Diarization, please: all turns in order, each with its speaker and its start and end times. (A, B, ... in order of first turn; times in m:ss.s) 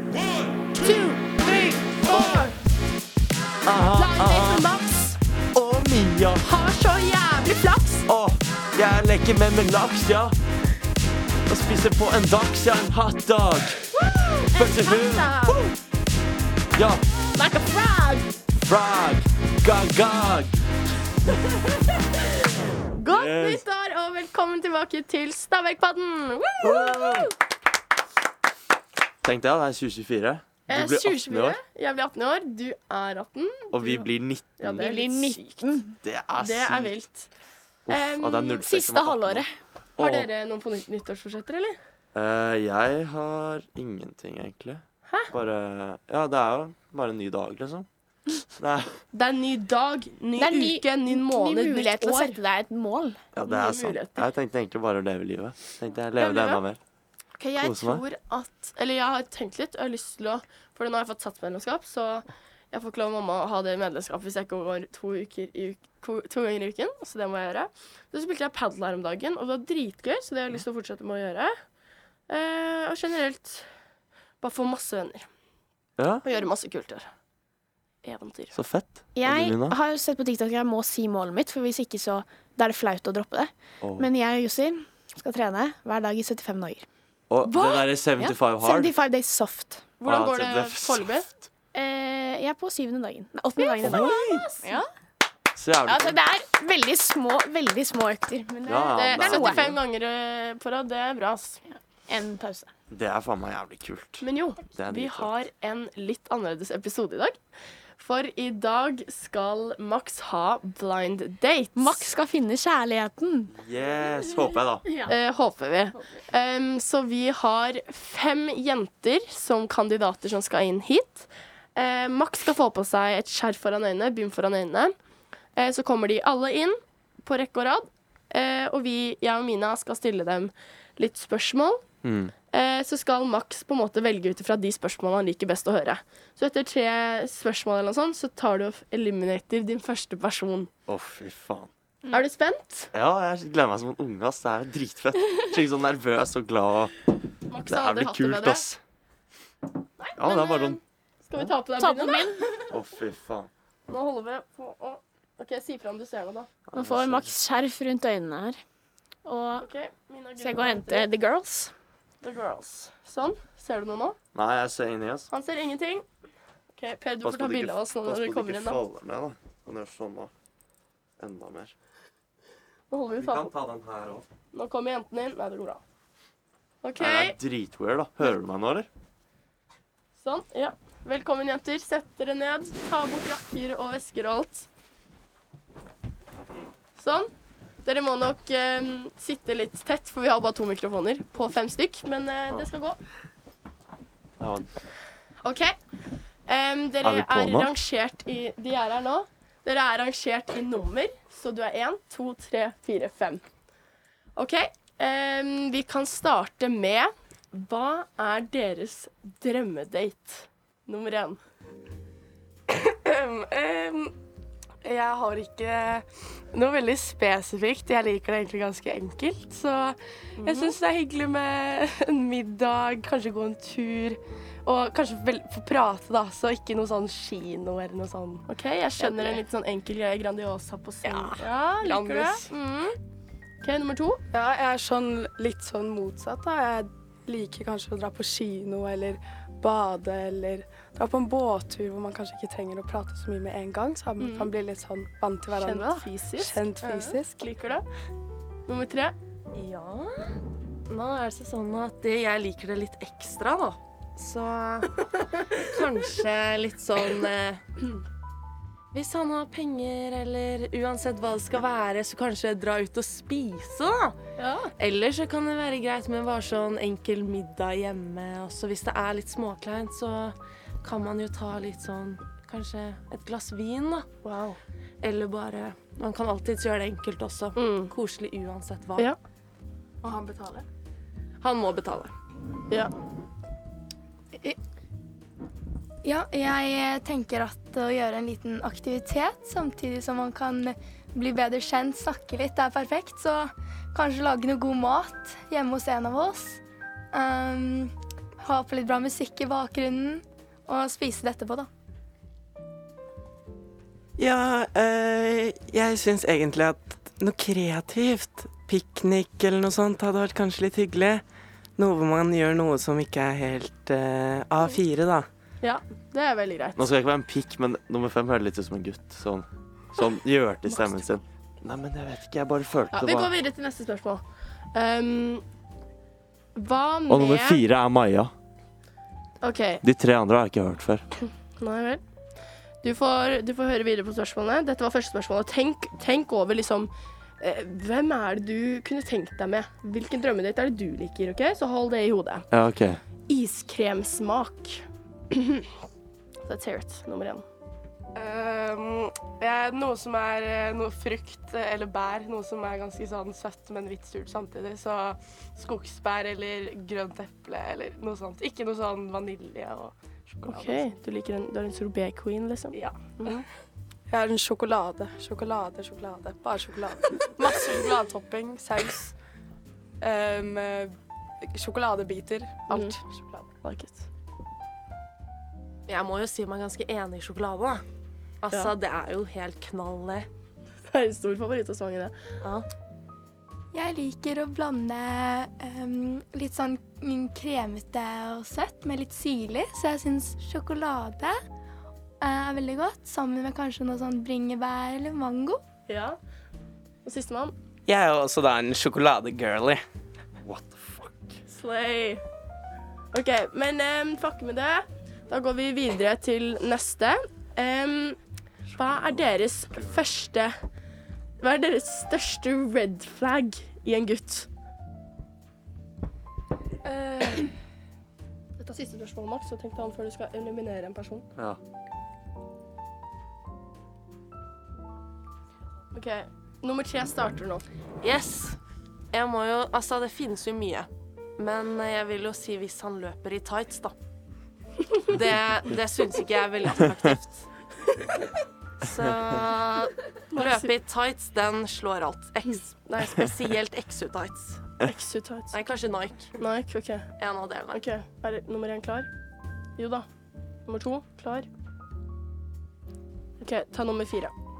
0:00.8-0:02.6 A
0:03.6-0:04.7 B
0:03.9-0:05.2 A
0:05.5-0:06.4 B
0:06.4-0:08.1 A
0:08.1-0:10.3 B
0:11.5-0:13.9 B
0:14.0-0:15.2 A
0:14.2-0:15.6 C
0:14.5-0:15.7 B
0:16.7-0:17.0 B
0:17.3-0:18.3 C
0:18.6-0:20.6 B
0:21.4-0:27.0 A
0:23.1-0:23.6 B
0:26.6-0:27.3 B
0:29.2-0:31.6 B
0:30.7-0:35.6 A
0:33.7-0:34.9 B
0:34.8-0:36.0 C
0:36.0-0:36.9 B
0:36.4-0:37.3 A
0:37.9-0:39.4 B
0:37.9-0:38.7 A
0:38.6-0:39.5 C
0:40.0-0:40.3 B
0:40.0-0:41.8 A
0:42.1-0:47.9 B
0:48.5-0:49.0 B
0:49.1-0:52.4 A
0:50.4-0:53.2 C
0:53.3-0:56.8 B
0:53.4-0:54.3 A
0:56.2-0:56.6 A
0:57.4-0:57.8 C
0:57.6-0:58.0 B
0:57.7-1:11.5 A
1:12.3-1:13.7 A
1:14.4-1:15.3 A
1:16.0-1:16.2 B
1:16.2-1:17.1 A
1:18.0-1:18.6 A
1:18.5-1:19.8 B
1:19.1-1:26.8 C
1:23.8-1:24.1 B
1:27.3-1:28.9 B
1:27.4-1:29.9 C
1:30.0-1:31.3 A
1:30.0-1:31.1 B
1:31.7-1:34.9 C
1:33.6-1:34.1 A
1:33.8-1:34.4 B
1:35.6-1:36.2 B
1:35.8-1:39.7 C
1:38.6-1:39.8 B
1:38.9-1:41.6 A
1:41.7-1:42.7 C
1:42.9-1:45.3 B
1:44.2-1:47.4 A
1:48.0-1:52.1 A
1:51.7-1:53.5 C
1:53.5-1:54.9 B
1:54.8-1:55.1 C
1:55.0-2:04.9 A
2:05.6-2:11.8 A
2:12.0-2:12.3 B
2:12.5-2:20.7 A
2:20.9-2:21.7 B
2:22.1-2:22.9 A
2:22.9-2:26.9 B
2:27.5-2:28.7 A
2:27.7-2:28.8 B
2:30.0-2:32.4 A
2:30.2-2:30.8 B
2:31.8-2:32.6 C
2:32.7-2:33.5 B
2:33.9-2:36.5 A
2:36.7-2:37.3 B
2:36.7-2:38.6 C
2:39.2-2:39.7 C
2:39.6-2:41.1 A
2:40.4-2:41.7 C
2:42.2-2:44.2 A
2:44.3-2:45.3 B
2:45.3-2:46.0 A
2:46.8-2:48.8 A
2:47.2-2:50.3 B
2:51.2-2:51.7 B
2:52.9-2:53.5 A
2:53.2-2:54.2 B
2:54.5-2:55.8 A
2:56.8-2:57.4 A
2:57.0-2:58.9 B
3:00.2-3:04.7 A
3:07.0-3:07.3 A
3:07.8-3:13.0 A
3:14.4-3:14.7 B
3:15.4-3:15.7 A
3:16.5-3:23.4 A
3:17.0-3:17.7 B
3:24.4-3:31.4 A
3:32.7-3:34.1 D
3:34.8-3:48.4 D
3:40.4-3:40.8 A
3:48.5-3:53.0 A
3:49.0-3:49.4 D
3:51.0-3:52.4 D
3:53.6-3:54.2 A
3:54.3-4:07.4 E
4:04.2-4:04.5 A
4:05.5-4:07.8 A
4:08.7-4:09.2 A
4:09.5-4:10.4 D
4:10.9-4:17.8 D
4:18.9-4:24.2 D
4:24.4-4:24.7 A
4:24.8-4:34.1 D
4:34.2-4:34.6 A
4:35.0-4:39.1 D
4:37.6-4:37.9 A
4:40.0-4:40.6 E
4:41.4-4:42.1 D
4:46.0-4:56.6 F
4:57.1-5:01.7 F
5:04.2-5:11.2 G
5:11.8-5:15.3 G
5:15.6-5:16.8 A
5:16.8-5:23.3 B
5:22.9-5:24.2 A
5:24.7-5:25.4 A
5:26.6-5:27.6 A
5:27.1-5:28.3 B
5:29.4-5:29.8 A
5:29.8-5:31.0 B
5:31.6-5:32.0 A
5:32.8-5:42.5 A
5:42.5-5:43.0 B
5:43.3-5:45.7 A
5:46.4-5:47.4 A
5:48.1-6:00.9 D
6:00.5-6:03.4 A
6:02.7-6:03.3 D
6:04.1-6:09.1 E
6:10.0-6:13.0 E
6:12.7-6:14.1 A
6:15.9-6:17.8 D
6:18.4-6:20.3 D
6:20.9-6:22.1 A
6:23.7-6:31.4 F
6:32.2-6:35.6 F
6:35.9-6:36.2 A
6:37.0-6:37.5 A
6:37.9-6:39.8 G
6:40.4-6:41.3 B
6:41.5-6:42.2 A
6:43.1-6:48.2 A
6:48.7-6:50.5 A
6:51.4-6:54.5 A
6:57.1-6:57.4 A
6:58.6-7:01.2 A
7:05.9-7:07.6 A
7:08.0-7:08.6 D
7:09.1-7:13.9 D
7:15.0-7:17.5 D
7:18.8-7:24.6 D
7:20.3-7:20.7 A
7:24.8-7:25.6 A
7:25.5-7:26.3 D
7:26.4-7:27.1 A
7:27.2-7:27.9 D
7:27.7-7:29.1 A
7:29.8-7:30.1 A
7:30.6-7:31.5 A
7:33.4-7:34.3 A